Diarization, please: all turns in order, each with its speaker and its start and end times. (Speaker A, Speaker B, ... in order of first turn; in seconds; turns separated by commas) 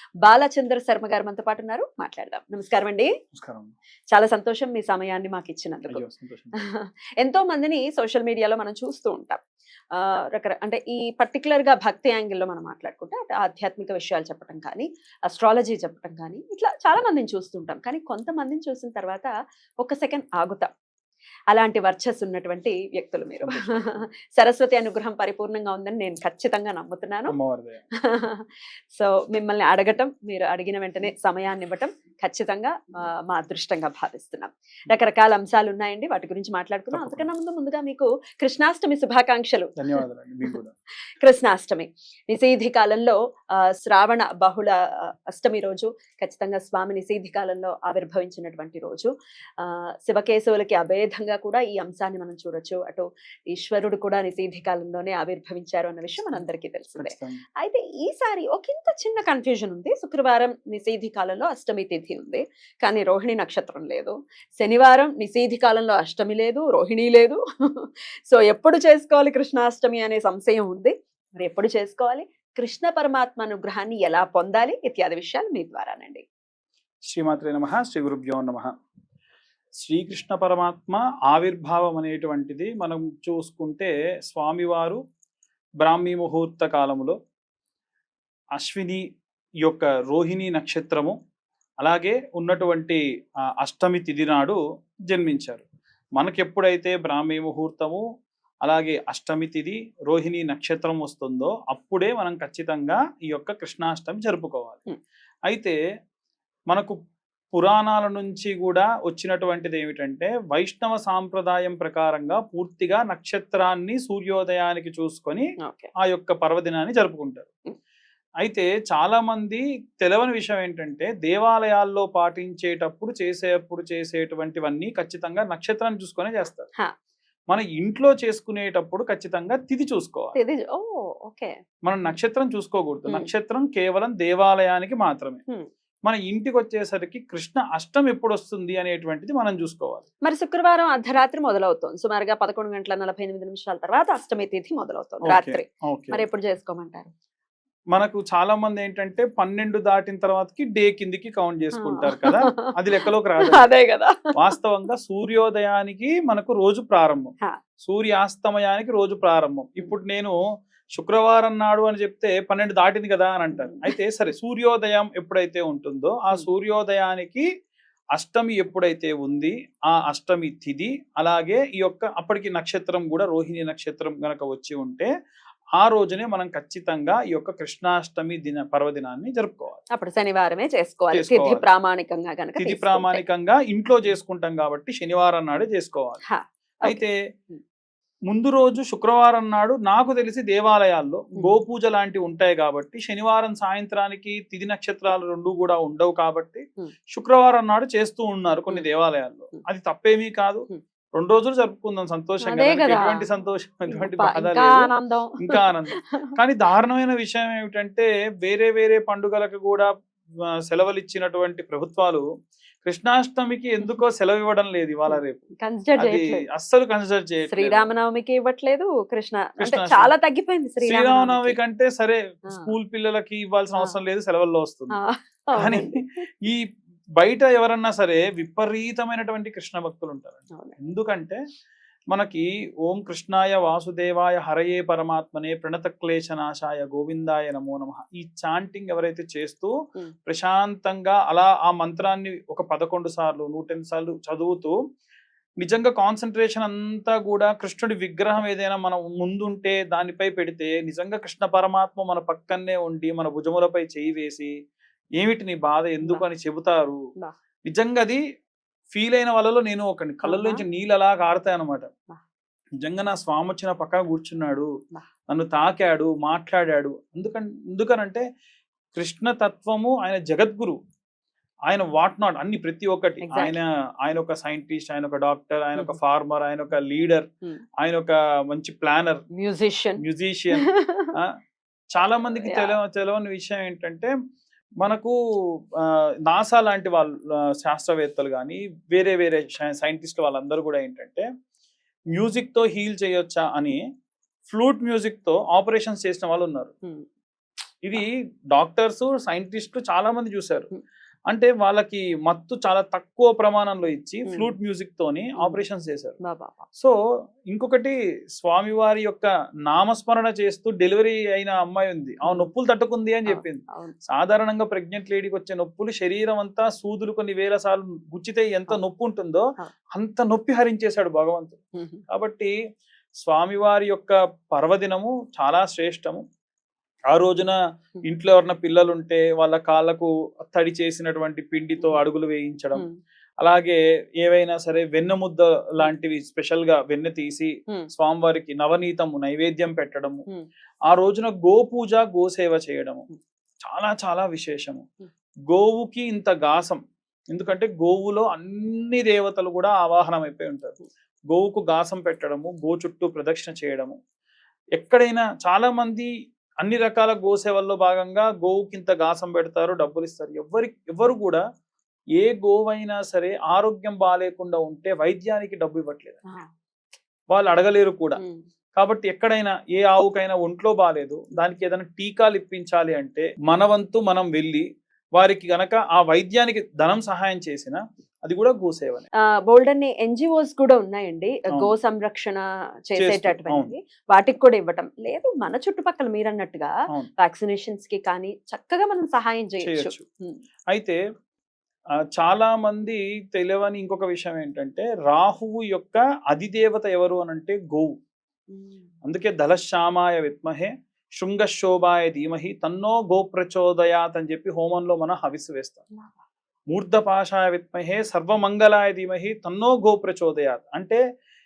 Speaker A: 0.2-3.1, Speaker B: 3.3-3.7, Speaker A: 4.1-9.4, Speaker B: 5.9-6.6, Speaker A: 9.9-20.7, Speaker A: 21.5-27.3, Speaker B: 23.4-24.1, Speaker B: 27.3-27.8, Speaker A: 28.0-39.7, Speaker B: 36.9-37.3, Speaker B: 39.8-40.7, Speaker A: 41.2-76.2, Speaker B: 56.9-57.4, Speaker B: 77.1-78.7, Speaker B: 79.8-85.0, Speaker B: 85.8-87.2, Speaker B: 88.6-89.0, Speaker B: 89.6-91.2, Speaker B: 91.8-93.0, Speaker B: 93.6-95.6, Speaker B: 96.2-98.0, Speaker B: 98.6-104.8, Speaker B: 105.5-105.8, Speaker B: 106.7-107.0, Speaker B: 107.5-115.5, Speaker A: 115.6-115.9, Speaker B: 116.0-117.5, Speaker B: 118.4-126.7, Speaker B: 127.5-130.3, Speaker A: 130.3-131.5, Speaker B: 131.8-135.4, Speaker B: 136.1-140.0, Speaker A: 140.2-147.1, Speaker B: 145.2-146.2, Speaker B: 147.9-153.6, Speaker A: 151.8-152.7, Speaker A: 153.4-154.2, Speaker B: 154.3-157.3, Speaker B: 157.8-160.3, Speaker B: 161.0-167.4, Speaker A: 163.5-163.9, Speaker B: 168.2-175.1, Speaker B: 175.8-179.8, Speaker A: 179.9-183.2, Speaker B: 181.1-181.6, Speaker B: 182.6-186.2, Speaker A: 186.2-187.6, Speaker B: 186.8-187.1, Speaker B: 188.3-204.9, Speaker A: 202.4-203.2, Speaker A: 203.9-206.3, Speaker B: 205.4-209.9, Speaker B: 210.7-212.2, Speaker B: 212.8-215.4, Speaker A: 215.1-216.4, Speaker B: 216.0-217.9, Speaker A: 217.5-221.6, Speaker B: 219.6-220.1, Speaker B: 220.8-224.9, Speaker A: 224.9-226.2, Speaker B: 225.6-226.6, Speaker B: 227.2-231.4, Speaker A: 230.5-230.8, Speaker B: 232.1-239.7, Speaker B: 240.3-244.7, Speaker B: 245.6-254.5, Speaker B: 255.2-256.9, Speaker B: 257.7-258.2, Speaker B: 258.9-261.9, Speaker A: 260.2-260.6, Speaker B: 262.8-264.7, Speaker B: 265.3-268.2, Speaker B: 268.9-270.8, Speaker B: 271.7-277.3, Speaker A: 273.2-273.6, Speaker B: 277.8-279.2, Speaker A: 279.3-280.0, Speaker B: 280.0-281.3, Speaker A: 280.6-281.1, Speaker B: 281.9-284.1, Speaker A: 282.2-282.8, Speaker B: 284.8-285.1, Speaker B: 285.8-291.3, Speaker B: 292.1-293.8, Speaker B: 294.5-296.7, Speaker B: 297.8-300.7, Speaker B: 301.3-306.1, Speaker A: 304.2-304.5, Speaker A: 305.4-305.6, Speaker A: 306.2-306.7, Speaker B: 307.5-321.6, Speaker A: 313.2-313.9, Speaker A: 321.8-322.0, Speaker B: 322.1-322.5, Speaker B: 323.2-326.2, Speaker B: 327.1-332.8, Speaker B: 333.4-340.2, Speaker B: 340.9-343.1, Speaker B: 343.6-344.8, Speaker B: 345.5-346.8, Speaker B: 347.3-350.7, Speaker B: 351.3-354.0, Speaker B: 354.8-356.1, Speaker B: 356.6-361.4, Speaker B: 362.2-366.2, Speaker B: 367.3-368.2, Speaker A: 368.2-368.4, Speaker B: 368.8-374.6, Speaker B: 375.2-379.1, Speaker A: 379.5-390.4, Speaker B: 383.0-383.7, Speaker B: 389.6-390.0, Speaker B: 390.7-391.0, Speaker B: 392.1-397.9, Speaker A: 398.5-398.9, Speaker B: 399.0-405.8, Speaker B: 406.7-411.0